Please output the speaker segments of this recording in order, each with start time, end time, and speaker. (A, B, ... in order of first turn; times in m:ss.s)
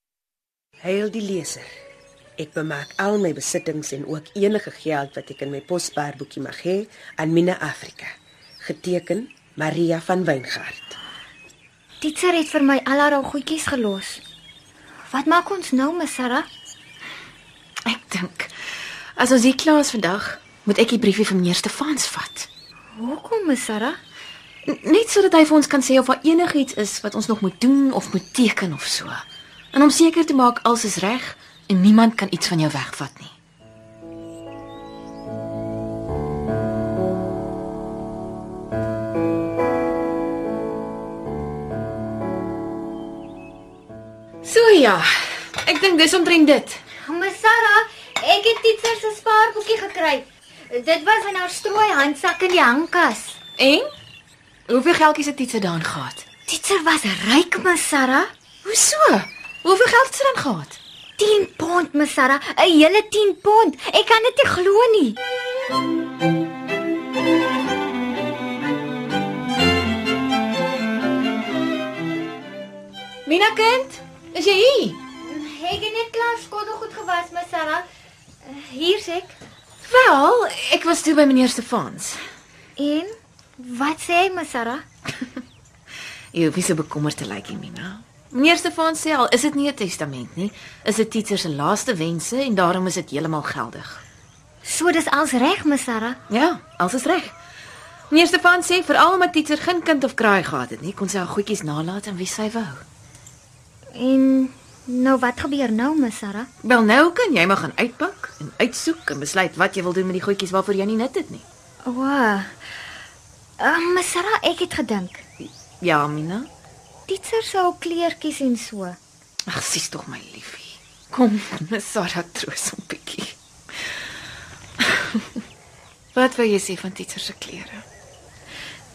0:00.8-0:01.7 A
0:02.4-0:11.0 A
0:12.0-0:14.2 B
0:15.1-0:16.5 B
0:17.9-0:18.5 C
0:19.2-0:22.5 C
0:23.0-0:24.0 B
0:24.6-0:33.3 C
0:44.4-0:46.8 C
0:47.0-0:53.4 B
0:53.6-0:53.9 C
0:54.7-0:56.2 C
0:56.5-0:58.3 B
0:58.6-1:00.8 C
1:01.2-1:05.2 B
1:13.2-1:15.0 C
1:15.2-1:17.8 B
1:18.4-1:19.4 B
1:19.8-1:22.2 C
1:22.8-1:24.8 B
1:26.3-1:34.0 C
1:34.6-1:36.2 B
1:36.3-1:37.3 C
1:38.1-1:42.8 C
1:43.9-1:46.5 B
1:46.6-1:51.4 C
1:51.8-1:52.6 B
1:53.6-1:55.2 B
1:55.8-1:56.5 C
1:57.1-1:59.0 B
1:59.5-2:03.9 C
2:04.8-2:05.4 C
2:06.2-2:07.8 C